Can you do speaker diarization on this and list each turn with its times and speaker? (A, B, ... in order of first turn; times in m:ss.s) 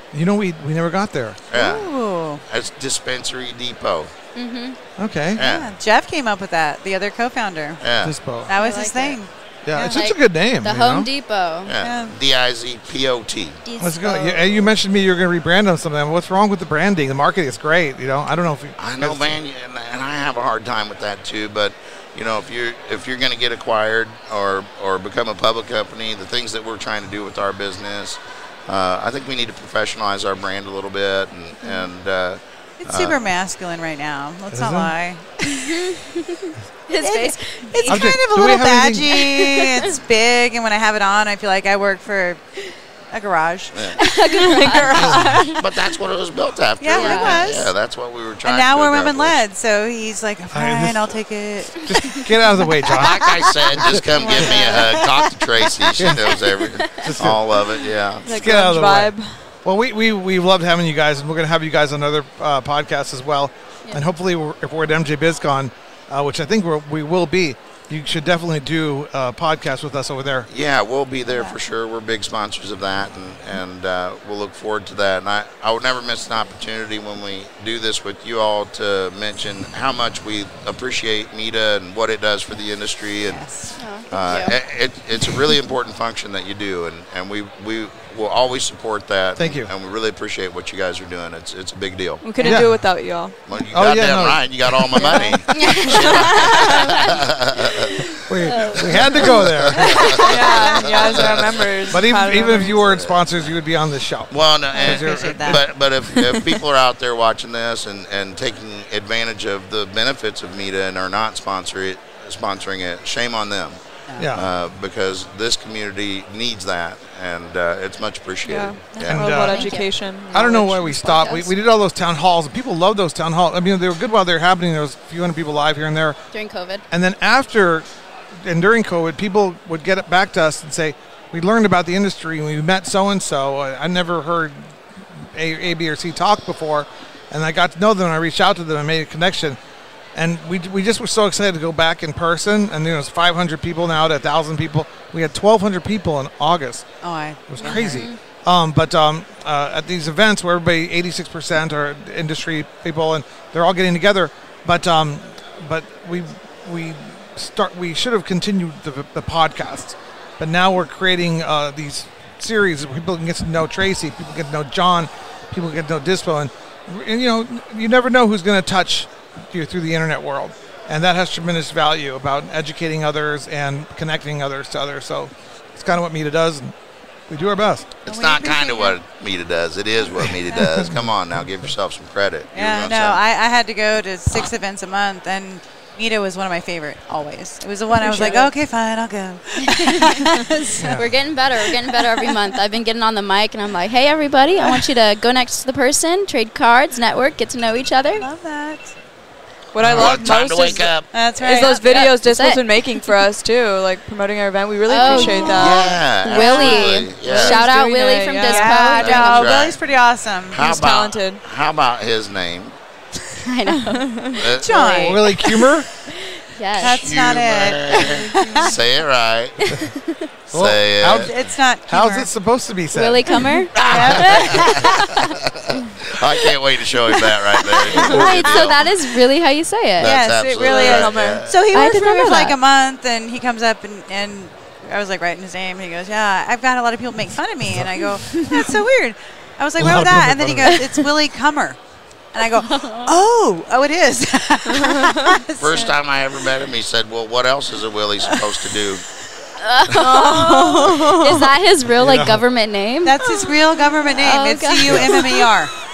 0:00.1-0:01.4 A
0:01.5-0:01.9 B
0:01.5-0:02.4 C
0:02.5-0:04.1 B
0:04.4-0:04.8 D
0:05.0-0:05.4 A
0:05.4-0:05.7 B
0:05.4-0:07.8 C
0:07.8-0:08.2 B
0:08.0-0:08.5 A
0:08.5-0:10.0 C
0:08.6-0:09.2 D
0:09.6-0:11.1 A
0:09.8-0:11.7 D
0:11.6-0:13.6 B
0:11.8-0:12.2 C
0:13.6-0:14.7 D
0:13.8-0:19.4 A
0:18.8-0:33.2 B
0:32.8-0:35.4 C
0:34.5-0:34.9 A
0:35.4-0:38.1 D
0:37.0-0:42.4 C
0:37.9-0:39.3 A
0:39.4-0:39.9 D
0:43.1-0:45.6 C
0:43.7-0:44.0 B
0:44.0-0:45.6 D
0:44.3-0:45.5 E
0:45.0-0:45.4 A
0:45.6-0:49.4 B
0:46.8-0:47.7 C
0:46.9-0:47.5 D
0:48.4-0:51.8 C
0:50.5-0:51.1 A
0:51.8-0:54.1 A
0:52.9-0:58.3 B
0:54.2-0:55.9 C
0:54.2-0:54.9 E
0:56.0-0:56.4 A
0:56.7-0:57.1 D
0:56.9-0:57.4 A
0:58.2-0:59.4 E
0:58.3-1:10.5 A
1:10.5-1:23.4 B
1:11.3-1:11.6 C
1:23.3-1:23.8 C
1:23.8-1:24.6 D
1:24.1-1:32.6 B
1:29.4-1:29.7 A
1:32.2-1:33.4 E
1:32.4-1:32.8 A
1:33.5-1:38.1 B
1:33.7-1:35.4 A
1:34.9-1:37.2 D
1:35.9-1:37.0 E
1:38.0-1:40.4 D
1:38.2-1:40.2 A
1:38.7-1:41.7 B
1:39.9-1:41.3 C
1:40.2-1:42.8 E
1:41.9-1:45.6 A
1:42.8-1:43.2 B
1:44.3-1:59.3 B
1:44.7-1:45.6 C
1:46.2-1:46.4 C
1:54.2-1:54.5 A
1:58.5-2:01.5 E
1:59.0-1:59.8 C
1:59.1-1:59.7 A
1:59.5-1:59.9 D
2:00.3-2:06.2 A
2:06.3-2:06.8 D
2:06.9-2:07.8 A
2:08.4-2:14.7 A
2:15.4-2:19.6 A
2:20.2-2:26.9 A
2:27.0-2:28.1 C
2:27.5-2:56.7 A
2:27.6-2:28.2 D
2:57.3-2:57.9 A
2:58.0-3:03.2 B
2:58.1-2:59.0 C
3:00.6-3:01.1 A
3:02.6-3:11.1 C
3:08.0-3:08.5 D
3:09.6-3:10.3 D
3:10.8-3:11.1 A
3:10.8-3:18.3 D
3:11.6-3:12.4 C
3:18.1-3:18.9 C
3:19.7-3:28.9 E
3:19.8-3:20.2 A
3:19.9-3:21.0 B
3:21.1-3:22.1 C
3:21.6-3:22.6 D
3:24.9-3:29.6 D
3:25.1-3:25.5 C
3:25.5-3:27.7 B
3:27.3-3:27.6 C
3:28.4-3:30.6 C
3:28.9-3:29.8 B
3:30.5-3:32.8 B
3:30.6-3:31.4 E
3:33.4-3:34.4 D
3:33.7-3:34.5 E
3:34.4-3:35.0 B
3:34.4-3:35.3 C
3:34.8-3:35.9 A
3:36.1-3:37.1 D
3:36.8-3:38.8 C
3:36.8-3:39.8 B
3:37.8-3:38.8 E
3:39.7-3:40.3 D
3:40.5-3:41.3 B
3:40.5-3:43.4 A
3:41.1-3:42.3 C
3:42.9-3:45.4 D
3:43.8-3:45.1 C
3:43.8-3:48.9 B
3:47.8-3:50.2 D
3:47.8-3:48.8 C
3:50.0-3:51.6 B
3:50.0-4:01.8 C
3:50.6-3:51.5 E
3:51.7-3:52.6 D
3:59.8-4:00.9 A
4:02.3-4:06.0 C
4:02.6-4:03.1 D
4:04.7-4:05.4 E
4:05.6-4:09.0 B
4:09.6-4:15.5 D
4:09.9-4:11.5 E
4:12.0-4:12.4 A
4:13.0-4:15.7 C
4:14.9-4:15.2 A